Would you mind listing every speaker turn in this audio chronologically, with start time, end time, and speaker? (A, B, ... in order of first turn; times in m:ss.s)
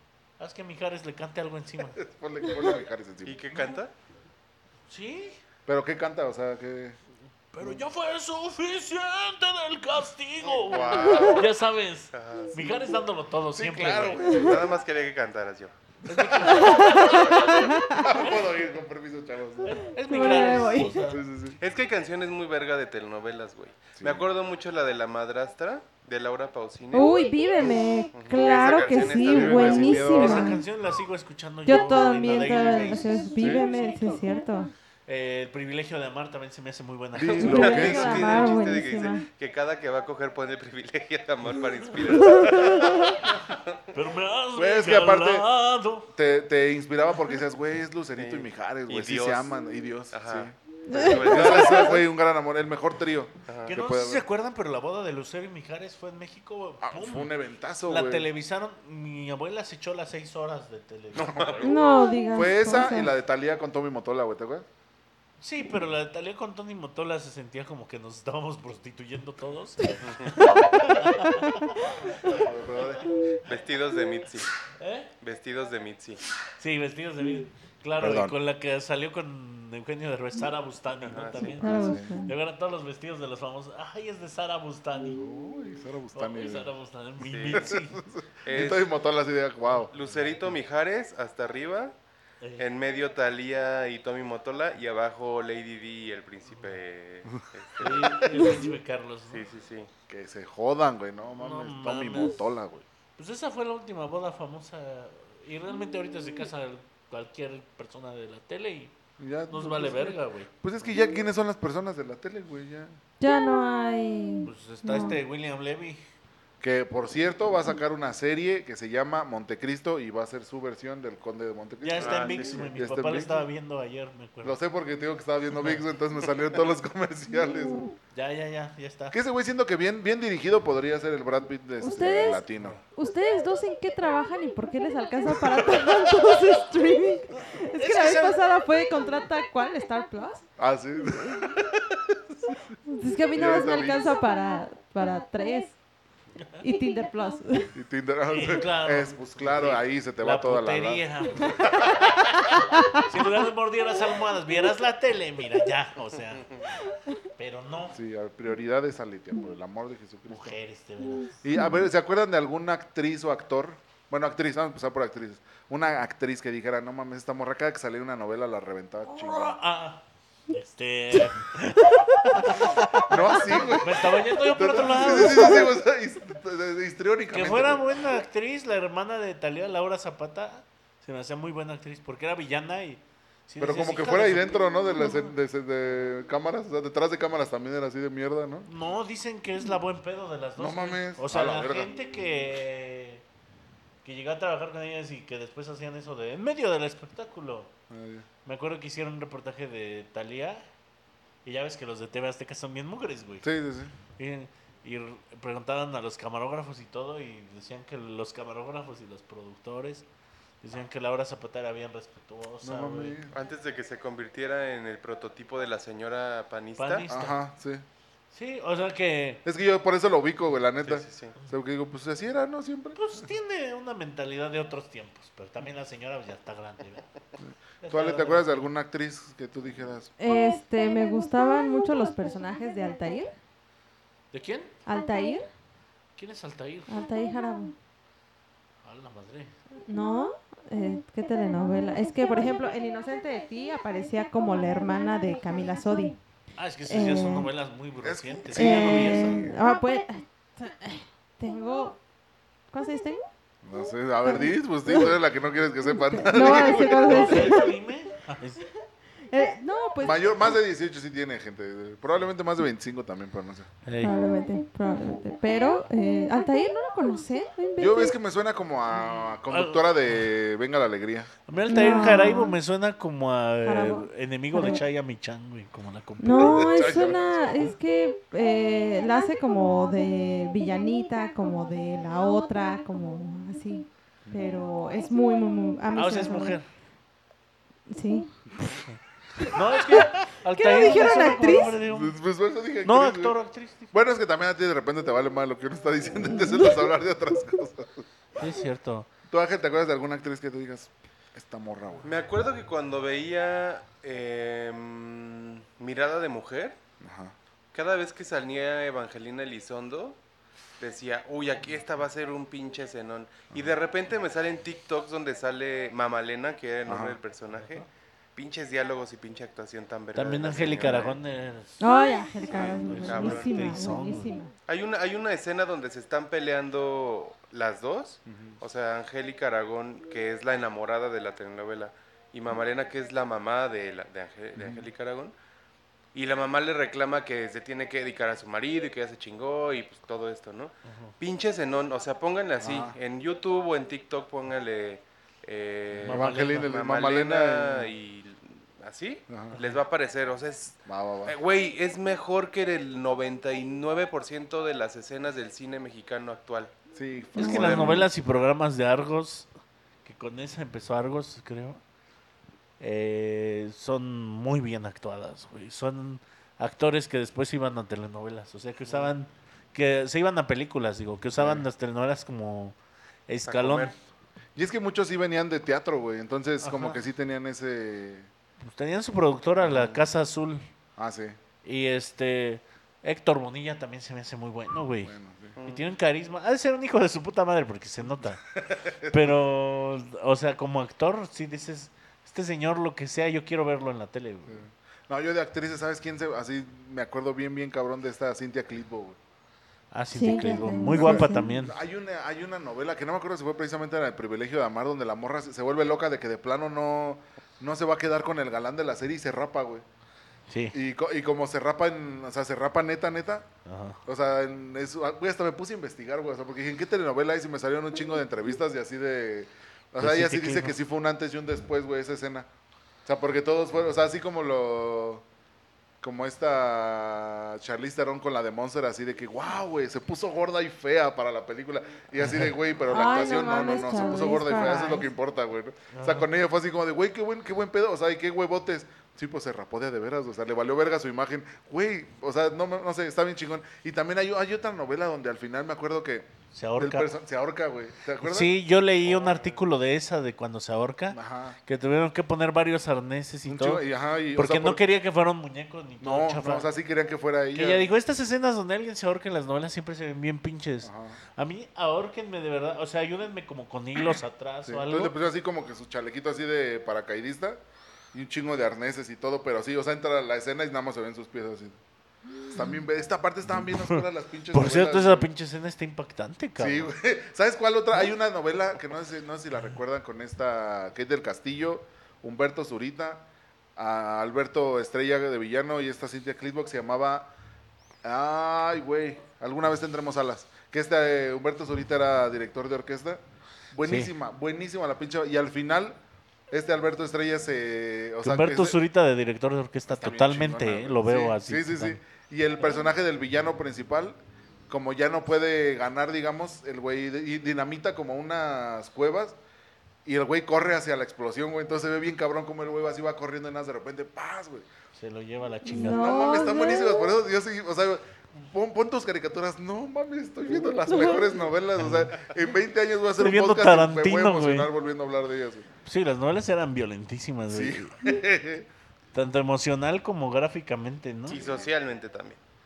0:00.4-0:02.0 A
0:01.9-0:03.4 B
0:03.2-0:03.9 C
0:04.9-0:05.4 A
0:05.7-0:07.0 B
0:07.5-0:14.3 A
0:10.4-0:11.5 C
0:10.7-0:11.4 B
0:11.1-0:11.4 D
0:12.1-0:12.7 C
0:13.5-0:14.7 B
0:14.2-0:14.5 D
0:14.4-0:15.7 C
0:16.0-0:18.6 A
0:16.1-0:19.8 B
0:16.4-0:18.2 D
0:19.6-0:21.2 A
0:20.0-0:21.1 D
0:21.0-0:21.6 B
0:21.6-0:27.1 C
0:24.0-0:24.3 B
0:26.9-0:30.6 D
0:28.1-0:30.2 C
0:29.2-0:30.6 B
0:30.1-0:34.2 A
0:31.6-0:34.7 D
0:33.4-0:33.6 B
0:35.1-0:38.3 A
0:37.1-0:38.5 B
0:37.3-0:43.8 C
0:37.3-0:39.2 D
0:42.2-0:43.2 A
0:42.4-0:42.8 D
0:43.9-0:46.1 A
0:44.5-0:45.5 B
0:46.1-0:54.2 B
0:48.2-0:49.5 C
0:50.1-0:52.0 C
0:50.9-0:52.0 D
0:53.5-0:53.7 C
0:53.7-0:57.3 A
0:56.8-0:58.3 B
0:57.8-1:01.7 A
1:01.1-1:01.7 B
1:01.2-1:01.7 C
1:01.6-1:03.1 D
1:02.3-1:04.6 B
1:05.4-1:13.1 A
1:10.0-1:10.5 C
1:11.2-1:11.7 D
1:12.2-1:13.2 B
1:13.4-1:14.5 C
1:14.8-1:15.1 A
1:15.2-1:16.2 C
1:16.6-1:25.2 A
1:18.0-1:18.3 B
1:21.0-1:21.6 C
1:21.5-1:22.1 B
1:21.6-1:22.3 D
1:25.2-1:26.7 B
1:26.1-1:28.0 A
1:27.2-1:27.7 C
1:27.5-1:29.9 B
1:28.4-1:28.9 C
1:29.9-1:31.9 C
1:32.4-1:32.7 A
1:32.6-1:38.4 C
1:36.5-1:36.8 A
1:37.8-1:39.5 A
1:37.8-1:38.1 B
1:39.3-1:39.9 C
1:40.1-1:42.8 B
1:41.4-1:42.4 A
1:43.2-1:48.9 A
1:49.2-1:53.0 B
1:49.5-1:50.5 A
1:53.2-1:55.2 D
1:54.5-1:56.0 A
1:56.6-2:03.5 B
2:01.8-2:04.6 A
2:02.0-2:02.6 C
2:04.4-2:07.9 B
2:08.1-2:09.2 A
2:09.1-2:12.8 B
2:11.8-2:12.4 D
2:12.9-2:20.4 D
2:17.4-2:18.4 A
2:20.6-2:22.6 B
2:21.1-2:21.4 D
2:22.9-2:25.8 D
2:23.3-2:24.1 B
2:26.6-2:27.7 D
2:27.7-2:32.0 B
2:28.3-2:32.2 A
2:32.5-2:33.4 D
2:33.0-2:36.6 A
2:36.8-2:37.2 D
2:37.4-2:38.0 A
2:37.9-2:40.6 B
2:40.3-2:41.4 A
2:41.4-2:49.6 B
2:49.0-2:55.7 A
2:53.0-2:58.0 B
2:57.3-3:05.3 A
3:03.6-3:08.7 B
3:08.6-3:13.2 A
3:10.6-3:11.9 B
3:14.0-3:17.7 A
3:17.9-3:18.2 B
3:18.4-3:20.6 A
3:21.4-3:23.4 A
3:23.4-3:23.9 B
3:24.2-3:30.0 A
3:30.6-3:33.2 A
3:32.6-3:33.3 B
3:33.3-3:37.0 C
3:36.8-3:37.4 A
3:37.1-3:37.8 B
3:38.3-3:39.4 A
3:39.4-3:43.2 B
3:40.8-3:41.3 C
3:42.9-3:47.1 A
3:47.8-3:48.6 A
3:47.9-3:50.1 B
3:50.2-3:53.3 D
3:54.3-3:54.7 A
3:54.8-3:55.5 D
3:56.2-3:56.9 A
3:56.9-3:57.8 D
3:58.8-3:59.5 A
3:59.9-4:06.2 D
4:06.6-4:09.5 A
4:06.9-4:07.5 D
4:08.0-4:09.5 B
4:08.5-4:12.0 D
4:12.7-4:13.2 D
4:13.6-4:17.6 B
4:14.2-4:15.1 D
4:15.9-4:17.8 D
4:16.4-4:18.6 A
4:19.3-4:20.5 D
4:20.0-4:23.7 B
4:23.8-4:24.2 A
4:24.0-4:28.1 D
4:27.8-4:31.3 B
4:29.5-4:30.2 A
4:31.5-4:36.8 A
4:31.7-4:32.5 D
4:33.6-4:34.8 D
4:36.2-4:46.6 D
4:36.4-4:37.7 B
4:45.9-4:46.7 A
4:47.9-4:48.8 D
4:48.9-4:52.2 A
4:49.4-4:51.8 D
4:51.9-4:53.4 B
4:52.8-4:53.9 A
4:53.9-4:58.0 B
4:58.4-4:59.1 A
4:59.3-5:02.1 B
5:02.0-5:06.8 C
5:07.0-5:07.3 B
5:07.7-5:10.2 C
5:10.8-5:21.2 C
5:16.8-5:17.2 B
5:20.1-5:21.8 A
5:21.8-5:24.5 D
5:22.6-5:24.3 A
5:23.1-5:23.5 C
5:24.6-5:35.3 C
5:28.3-5:28.6 B
5:34.6-5:34.9 B
5:36.1-5:56.7 C
5:40.8-5:41.1 A
5:42.6-5:43.0 B
5:46.0-5:46.7 A
5:46.1-5:47.9 B
5:49.3-5:49.6 B
5:50.9-5:51.4 B
5:56.9-5:58.1 B
5:57.4-5:59.5 A
5:57.4-5:58.1 D
6:00.0-6:01.8 A
6:02.8-6:12.7 A
6:11.4-6:11.6 B
6:13.3-6:13.9 A
6:13.4-6:13.9 C
6:14.6-6:18.3 B
6:16.6-6:17.0 A
6:18.6-6:20.6 A
6:19.6-6:20.0 B
6:21.0-6:21.4 B
6:21.6-6:25.1 A
6:25.0-6:25.6 B
6:25.6-6:25.8 C
6:25.6-6:34.6 A
6:28.6-6:29.3 B
6:34.5-6:39.2 B
6:39.9-6:41.7 A
6:40.1-6:41.5 D
6:40.9-6:49.8 B
6:50.5-6:50.8 A
6:50.7-6:53.5 B
6:53.6-6:54.0 A
6:54.0-7:02.5 B
7:00.0-7:00.7 A
7:03.0-7:05.2 B
7:06.0-7:28.6 B
7:12.2-7:12.5 A
7:12.9-7:15.1 D
7:15.9-7:16.3 A
7:26.5-7:27.1 A
7:28.2-7:33.8 A
7:31.1-7:31.6 B
7:33.4-7:34.8 B
7:34.3-7:36.7 A
7:36.0-7:37.9 B
7:37.5-7:45.1 A
7:40.8-7:41.2 B
7:44.6-7:47.6 B
7:48.1-7:51.8 B
7:52.5-7:55.3 B
7:53.5-7:56.9 A
7:56.6-8:07.3 B
8:08.0-8:13.2 B
8:13.7-8:16.0 B
8:13.8-8:14.1 A
8:16.5-8:18.8 B
8:18.2-8:22.0 A
8:19.9-8:24.2 B
8:24.7-8:29.4 B
8:30.0-8:34.7 B
8:35.0-8:36.1 A
8:35.6-8:37.1 D
8:35.8-8:45.7 B
8:40.8-8:41.3 D
8:41.8-8:42.1 A
8:43.2-8:44.7 A
8:45.8-8:47.9 A
8:47.5-8:48.7 B
8:49.1-8:51.5 A
8:51.3-8:52.4 C